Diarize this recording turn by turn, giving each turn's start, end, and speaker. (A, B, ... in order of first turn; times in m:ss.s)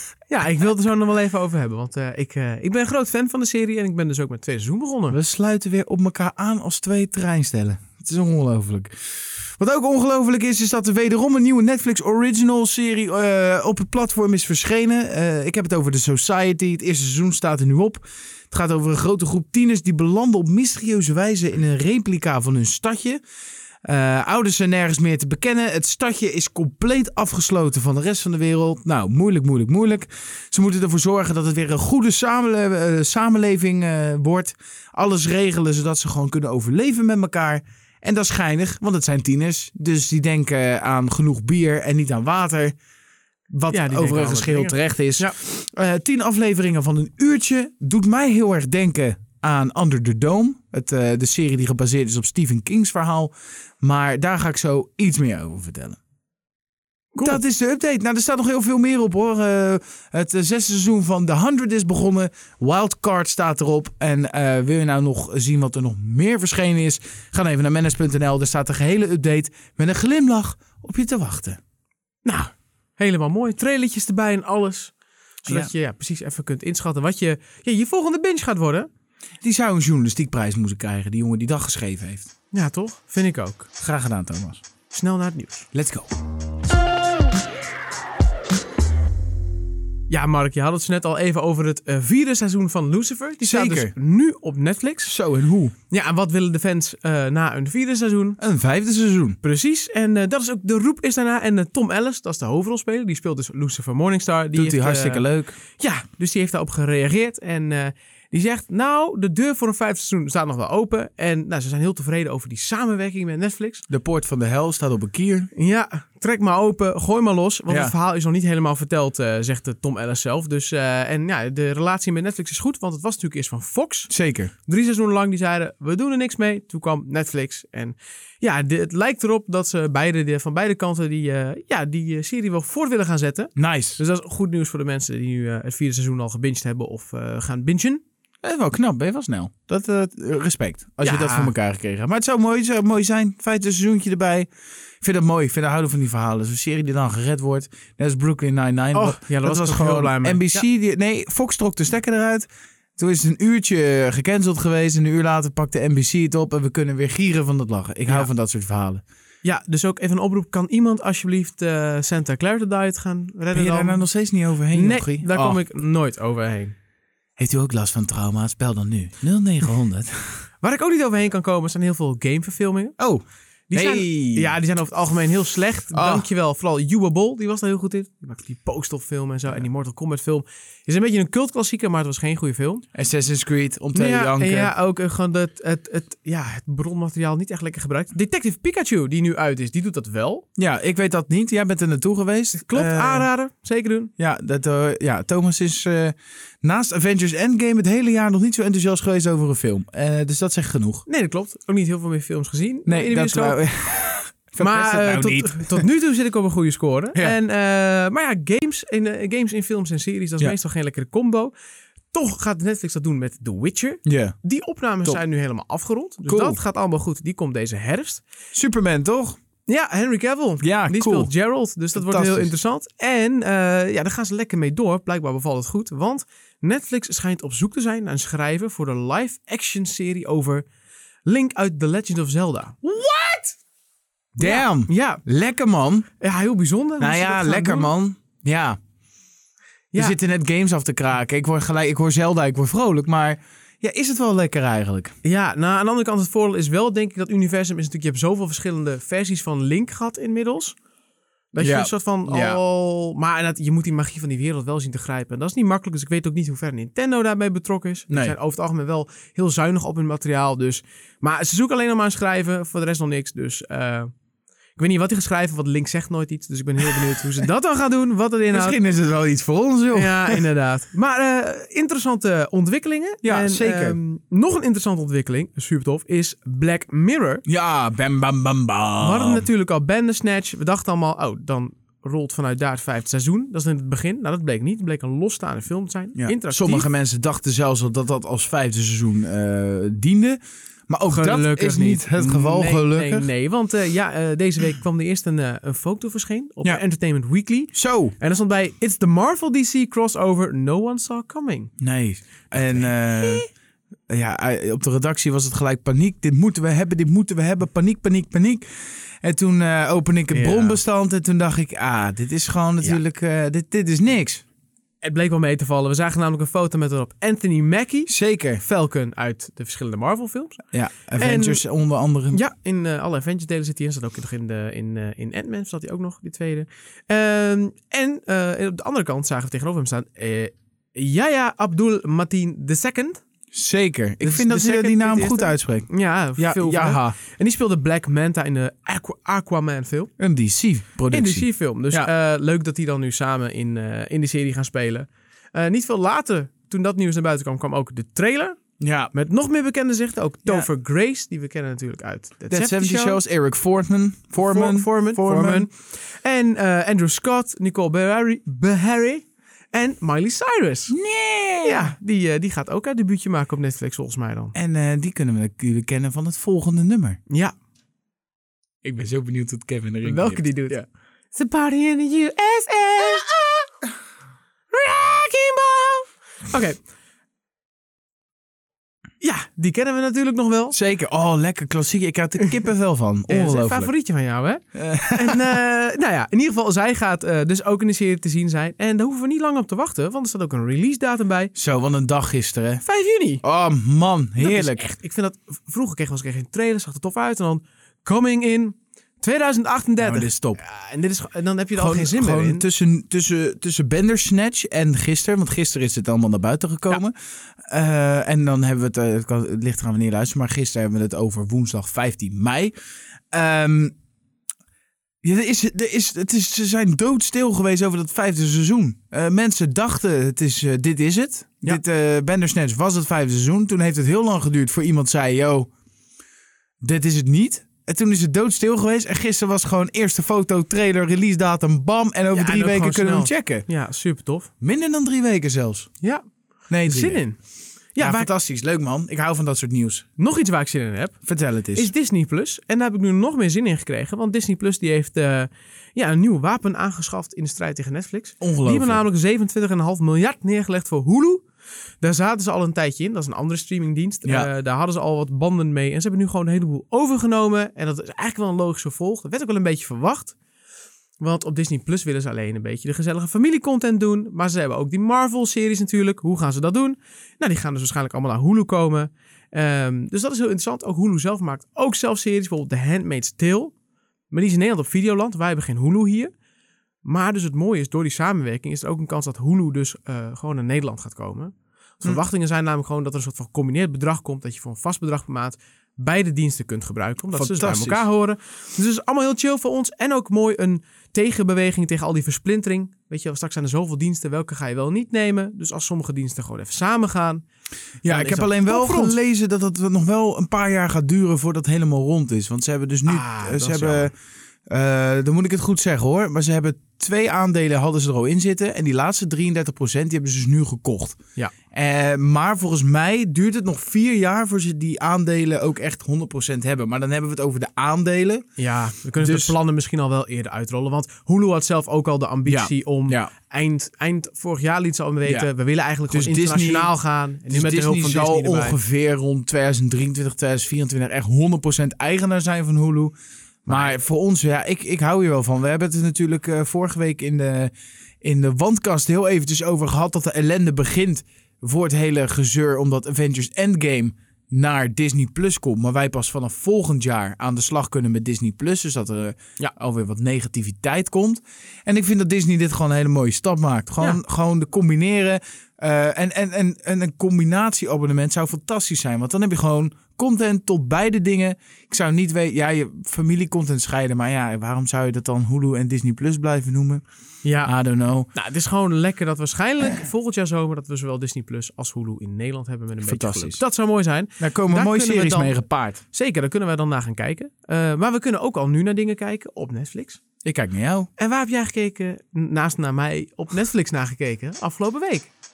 0:00.3-0:05.2 A
0:05.1-0:23.2 B
0:23.8-0:42.7 B
0:43.5-0:56.0 B
0:43.7-0:45.3 A
0:57.1-0:57.4 A
0:57.2-1:11.6 B
1:12.2-1:14.9 A
1:15.4-1:18.9 A
1:15.4-1:15.7 B
1:19.4-1:22.3 B
1:22.5-1:23.7 A
1:23.8-1:24.6 B
1:24.9-1:25.6 A
1:25.7-1:26.1 B
1:30.1-1:35.1 A
1:33.4-1:33.9 B
1:35.1-1:35.7 B
1:35.9-1:38.4 A
1:38.4-1:39.4 B
1:39.4-1:45.2 A
1:44.5-1:45.5 B
1:45.8-1:53.8 A
1:53.9-1:55.5 B
1:55.6-2:04.1 A
2:04.1-2:04.5 B
2:04.6-2:18.0 A
2:13.6-2:14.0 B
2:18.4-2:24.5 B
2:21.0-2:21.5 A
2:25.0-2:39.0 B
2:28.9-2:30.6 A
2:39.4-2:44.0 A
2:43.5-2:45.6 B
2:44.7-2:46.7 A
2:47.4-2:50.1 B
2:50.6-2:53.0 A
2:53.0-2:54.5 B
2:53.7-3:02.8 A
2:55.9-2:56.2 B
3:02.9-3:04.7 B
3:03.9-3:10.4 A
3:10.6-3:13.3 B
3:12.6-3:14.1 A
3:14.2-3:21.0 B
3:21.1-3:23.6 A
3:22.8-3:25.9 B
3:24.6-3:31.5 A
3:32.1-3:38.2 A
3:34.0-3:34.3 B
3:36.2-3:36.6 B
3:38.5-3:39.4 B
3:39.7-3:50.6 A
3:40.6-3:41.3 B
3:41.9-3:42.5 B
3:51.2-3:53.5 A
3:54.4-3:56.1 B
3:54.4-3:55.2 A
3:56.2-3:57.9 A
3:57.0-3:58.8 B
3:59.9-4:05.1 B
4:05.2-4:10.8 A
4:11.5-4:24.1 A
4:11.6-4:12.6 B
4:18.1-4:18.3 B
4:24.8-4:28.8 A
4:28.5-4:30.4 B
4:29.9-4:37.4 A
4:33.2-4:34.0 B
4:37.5-4:39.4 B
4:39.0-4:46.9 A
4:46.2-4:53.3 B
4:51.1-5:01.7 A
4:57.7-4:58.2 B
5:01.8-5:03.4 B
5:02.5-5:03.4 A
5:04.1-5:08.6 B
5:09.2-5:14.4 B
5:10.3-5:10.8 A
5:15.0-5:20.6 A
5:18.1-5:18.6 B
5:20.7-5:22.4 B
5:21.2-5:21.6 A
5:22.3-5:33.2 A
5:33.5-5:37.2 B
5:34.2-5:40.1 A
5:40.2-5:42.1 B
5:41.1-5:48.6 A
5:48.8-5:49.1 B
5:49.1-5:53.2 A
5:52.5-5:55.7 B
5:54.4-6:00.9 A
6:00.9-6:01.9 B
6:01.6-6:04.6 A
6:04.6-6:07.2 B
6:08.8-6:10.8 B
6:10.0-6:10.8 A
6:11.3-6:13.7 A
6:14.7-6:16.8 A
6:19.2-6:20.8 A
6:20.7-6:23.9 B
6:23.3-6:24.6 A
6:24.7-6:25.6 B
6:25.1-6:31.5 A
6:31.6-6:32.8 B
6:32.8-6:33.4 A
6:33.4-6:34.9 B
6:34.4-6:42.6 A
6:40.0-6:40.6 B
6:41.8-6:47.2 B
6:47.7-6:52.7 B
6:53.3-6:53.9 B
6:55.2-7:05.7 B
7:06.8-7:13.7 B
7:12.3-7:14.5 A
7:14.6-7:15.9 B
7:16.7-7:17.2 B
7:16.8-7:17.4 A
7:17.9-7:18.3 A
7:18.0-7:20.0 B
7:20.2-7:21.2 A
7:21.2-7:21.9 B
7:21.7-7:31.4 A
7:28.4-7:29.0 B
7:32.0-7:40.3 A
7:34.2-7:34.5 B
7:41.2-7:53.7 A
7:54.3-7:56.3 A
7:57.0-8:17.4 A
8:07.3-8:08.0 B
8:18.0-8:24.1 B
8:18.1-8:19.2 A
8:23.1-8:24.1 A
8:24.7-8:31.2 B
8:31.7-8:38.4 B
8:38.6-8:48.8 A
8:39.2-8:39.5 B
8:42.4-8:43.3 B
8:46.1-8:46.9 B
8:47.5-8:53.1 B
8:53.6-8:54.0 A
8:53.7-9:27.0 B
9:27.4-9:27.7 A
9:27.6-9:28.3 B
9:28.3-9:40.2 A
9:33.0-9:33.6 B
9:34.4-9:36.0 B
9:40.4-9:41.1 B
9:41.2-9:45.3 A